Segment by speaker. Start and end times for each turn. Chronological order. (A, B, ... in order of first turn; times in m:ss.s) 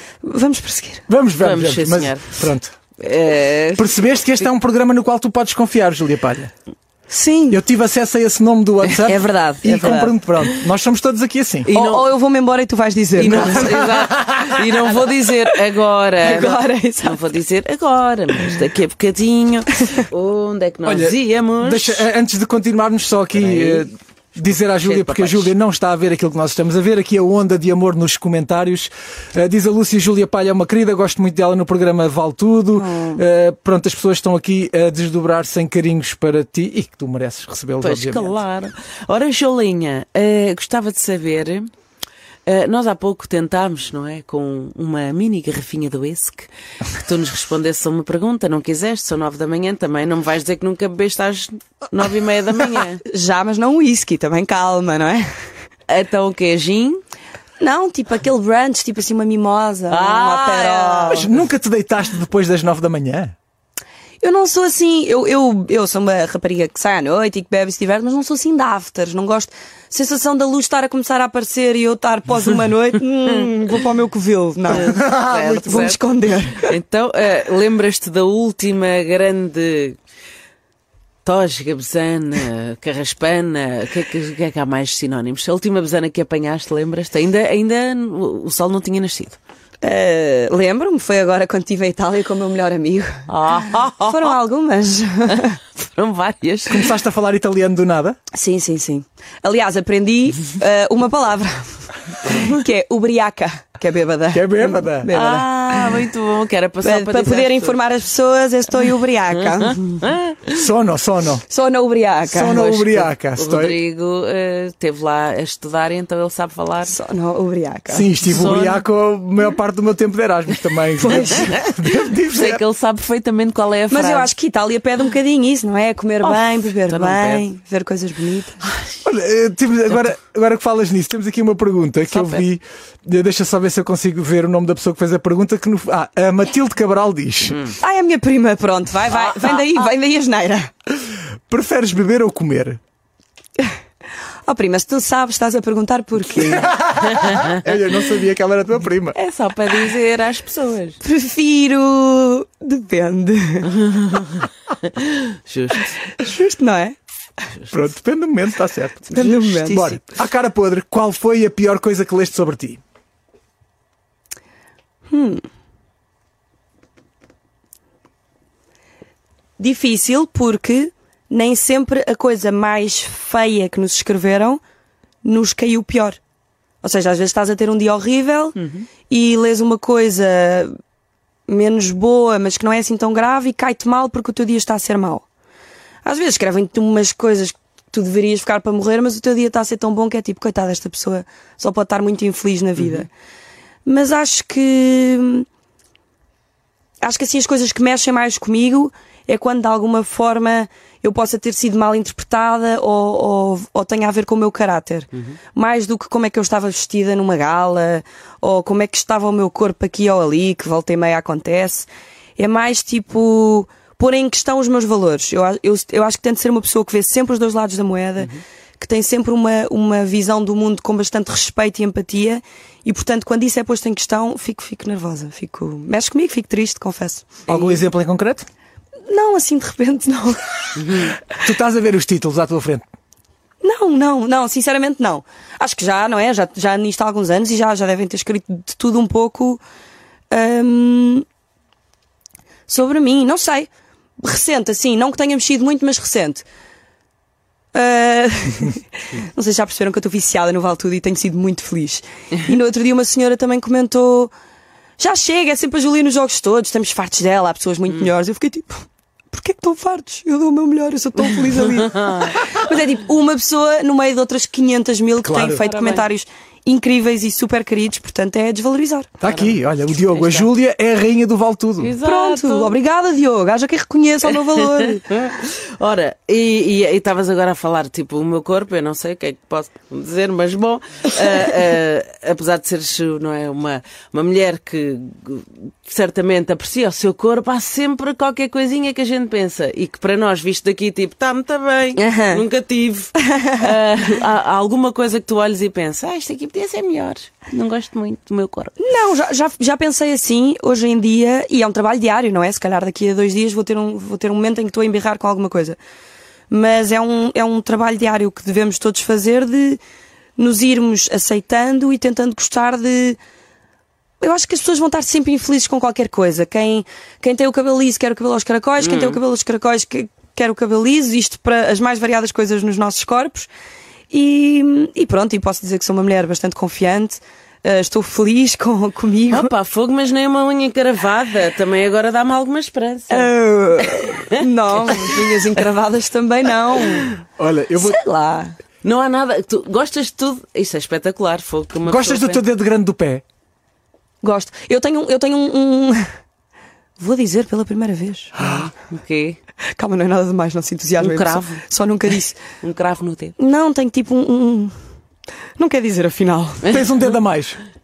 0:00.2-0:01.0 A
0:01.1-0:02.7 B
0:01.4-0:02.4 C
0:03.0-0:03.9 C
0:03.8-0:06.5 B
0:07.1-0:07.6 A
0:07.5-0:11.7 B
0:09.0-0:10.1 A
0:11.7-0:12.0 C
0:11.7-0:13.7 A
0:13.2-0:22.0 C
0:13.3-0:14.7 B
0:16.2-0:17.2 A
0:20.8-0:38.4 B
0:23.3-0:23.8 C
0:24.6-0:25.5 C
0:32.7-0:33.2 A
0:37.8-0:41.7 C
0:42.4-0:53.0 C
0:53.0-0:55.3 A
0:55.9-0:57.0 C
0:57.6-1:01.3 A
0:59.9-1:01.2 C
1:01.1-1:03.3 B
1:04.2-1:15.0 A
1:14.7-1:15.9 B
1:14.7-1:16.0 C
1:15.6-1:16.8 A
1:16.6-1:20.0 C
1:21.2-1:29.4 C
1:29.8-1:35.6 A
1:33.3-1:34.4 C
1:35.3-1:36.9 C
1:36.7-1:38.2 B
1:38.3-1:46.1 A
1:44.3-1:45.1 B
1:45.1-1:47.8 C
1:46.8-1:50.0 A
1:49.6-1:50.6 C
1:50.5-1:51.4 B
1:51.5-1:52.8 A
1:52.3-1:53.8 B
1:52.6-1:56.9 C
1:56.8-1:58.1 A
1:57.9-2:02.6 B
1:58.3-1:58.8 C
2:01.0-2:01.4 A
2:01.2-2:04.3 C
2:03.9-2:08.6 A
2:06.9-2:07.4 C
2:09.0-2:17.6 B
2:12.1-2:12.4 C
2:17.8-2:20.7 A
2:19.3-2:19.7 C
2:21.0-2:22.8 B
2:24.4-2:26.7 A
2:26.4-2:29.2 B
2:27.0-2:27.6 C
2:29.1-2:31.0 C
2:31.0-2:33.8 A
2:33.6-2:36.0 C
2:36.1-2:37.0 A
2:37.7-2:42.8 B
2:39.1-2:40.0 A
2:45.1-2:45.4 A
2:49.6-2:54.6 A
2:55.2-2:56.2 A
2:56.8-2:58.6 A
2:59.1-3:00.8 A
3:01.5-3:05.2 A
3:06.0-3:13.1 A
3:12.8-3:13.0 C
3:13.8-3:15.5 A
3:17.0-3:47.8 A
3:47.5-3:48.5 B
3:49.1-3:51.1 A
3:50.8-3:51.1 C
3:51.3-3:52.9 B
3:53.6-3:59.6 A
4:00.3-4:01.2 A
4:02.7-4:03.7 A
4:04.2-4:06.4 A
4:07.7-4:14.3 A
4:15.0-4:29.1 A
4:21.8-4:22.4 C
4:25.2-4:25.6 B
4:25.5-4:26.1 C
4:29.2-4:31.9 B
4:29.3-4:30.5 C
4:31.8-4:32.7 C
4:32.0-4:35.2 A
4:34.3-4:58.7 C
4:52.0-4:52.4 A
4:53.2-4:53.7 A
4:58.8-5:05.8 A
5:06.5-5:09.8 A
5:10.4-5:13.2 A
5:14.2-5:23.5 A
5:18.8-5:19.2 C
5:24.1-5:29.5 A
5:29.3-5:33.3 C
5:33.1-5:37.2 A
5:33.8-5:35.2 C
5:37.4-5:38.0 B
5:37.8-5:38.6 A
5:38.8-5:42.4 C
5:41.8-5:43.2 B
5:44.2-5:46.1 A
5:47.0-5:48.3 A
5:48.4-5:49.4 C
5:48.4-5:48.7 B
5:49.7-5:52.4 A
5:51.0-5:51.6 C
5:52.6-5:53.3 C
5:53.4-5:54.7 A
5:55.6-5:56.8 A
5:56.6-5:56.9 C
5:56.7-5:57.6 B